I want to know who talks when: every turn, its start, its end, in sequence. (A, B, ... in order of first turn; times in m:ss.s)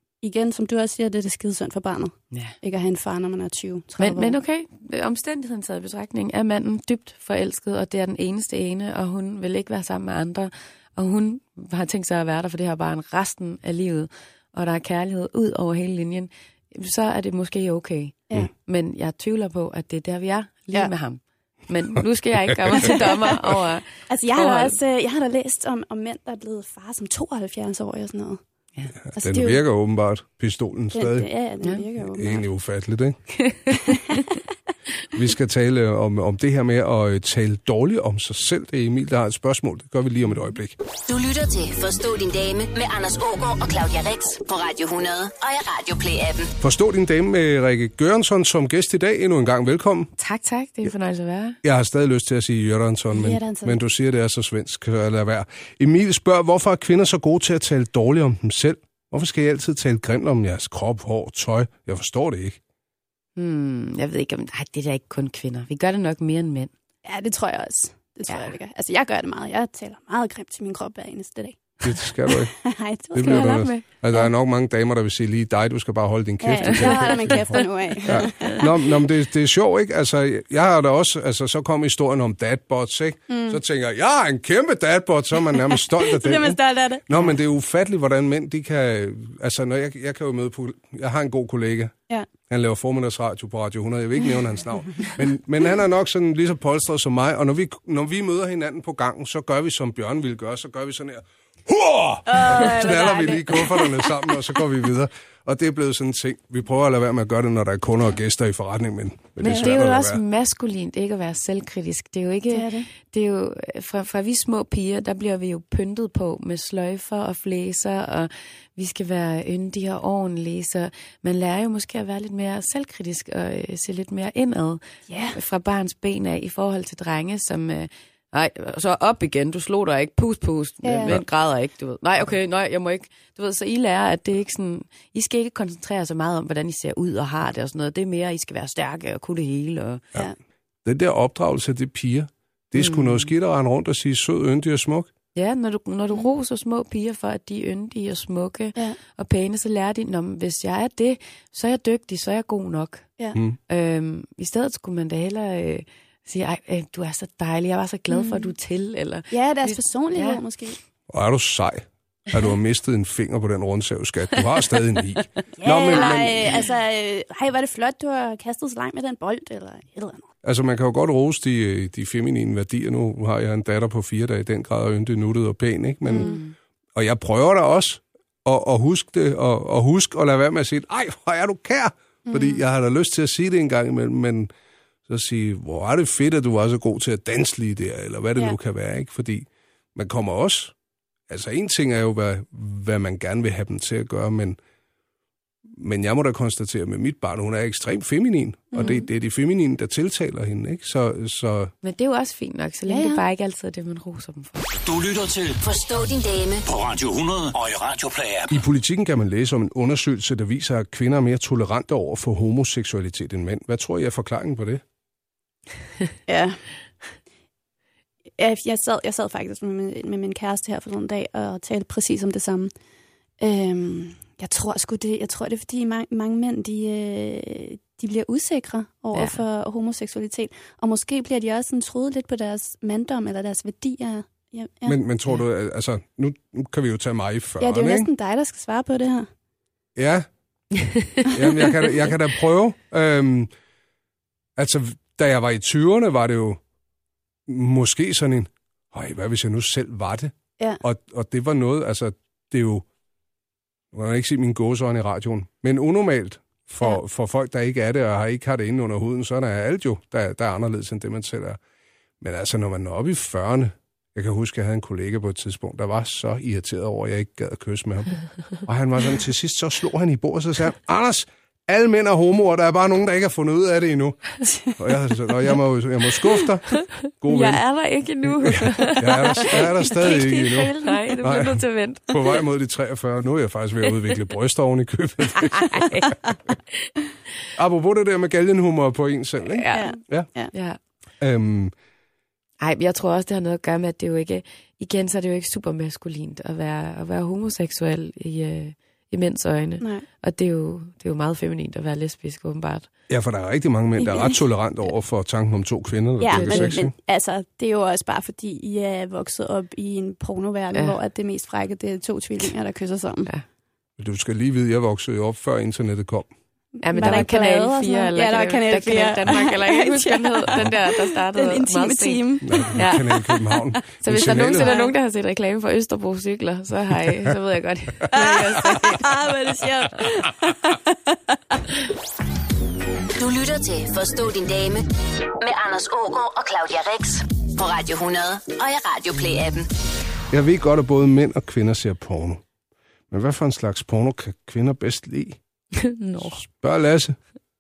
0:00.2-0:04.4 A
0:04.0-0:24.8 B
0:24.1-0:28.4 A
0:29.0-0:31.3 C
0:29.1-0:29.6 A
0:30.9-0:32.4 A
0:32.0-0:33.2 C
0:33.4-0:34.2 B
0:35.1-0:40.8 C
0:41.1-0:46.5 D
0:46.6-0:50.1 C
0:50.2-0:51.6 B
0:51.6-1:02.6 C
0:53.1-0:53.8 A
1:03.4-1:06.7 B
1:07.0-1:14.2 A
1:11.8-1:12.5 C
1:13.1-1:31.9 C
1:13.2-1:13.8 B
1:16.4-1:18.7 A
1:16.6-1:18.5 B
1:23.3-1:23.6 A
1:25.8-1:27.3 A
1:32.5-1:50.2 C
1:42.3-1:44.1 A
1:49.4-2:04.8 B
1:49.4-1:49.7 A
1:52.5-1:52.9 A
2:05.1-2:05.4 A
2:05.3-2:20.0 B
2:10.8-2:11.2 A
2:20.8-2:25.1 C
2:22.8-2:23.3 B
2:25.4-2:33.0 B
2:33.7-2:40.4 B
2:38.1-2:38.5 A
2:39.3-2:40.8 A
2:41.1-2:46.6 C
2:45.6-2:50.3 A
2:50.4-2:56.4 C
2:56.1-2:56.4 A
2:56.2-2:56.5 B
2:57.0-3:04.5 C
3:02.3-3:02.6 A
3:05.1-3:10.7 C
3:11.3-3:14.6 C
3:15.8-3:21.7 C
3:18.7-3:19.0 A
3:21.8-3:24.6 B
3:22.9-3:23.2 A
3:24.8-3:25.6 E
3:25.6-3:26.6 D
3:26.6-3:28.5 E
3:28.5-3:34.8 C
3:36.3-3:36.6 A
3:38.4-3:42.7 A
3:43.4-3:55.0 A
3:49.1-3:49.4 B
3:54.9-3:58.1 C
3:57.6-3:59.3 A
4:00.0-4:00.3 C
4:01.3-4:03.5 C
4:04.6-4:06.6 C
4:07.5-4:12.8 C
4:13.9-4:21.6 C
4:22.2-4:37.6 C
4:37.2-4:42.4 B
4:39.0-4:46.1 C
4:45.4-4:46.1 B
4:47.6-4:50.3 C
4:49.4-4:50.0 B
4:49.7-4:50.5 A
4:50.5-4:50.8 B
4:51.2-4:51.7 C
4:52.6-5:02.9 B
5:03.1-5:06.9 C
5:04.0-5:04.4 A
5:06.2-5:13.3 A
5:06.3-5:06.8 B
5:14.0-5:16.3 C
5:16.8-5:23.3 B
5:16.9-5:23.3 A
5:22.4-5:24.8 C
5:24.0-5:24.9 A
5:24.0-5:29.2 B
5:28.1-5:31.6 A
5:33.2-5:34.9 D
5:35.4-5:39.7 D
5:40.3-5:42.4 C
5:43.1-5:45.4 C
5:45.8-5:46.4 B
5:46.5-5:47.2 C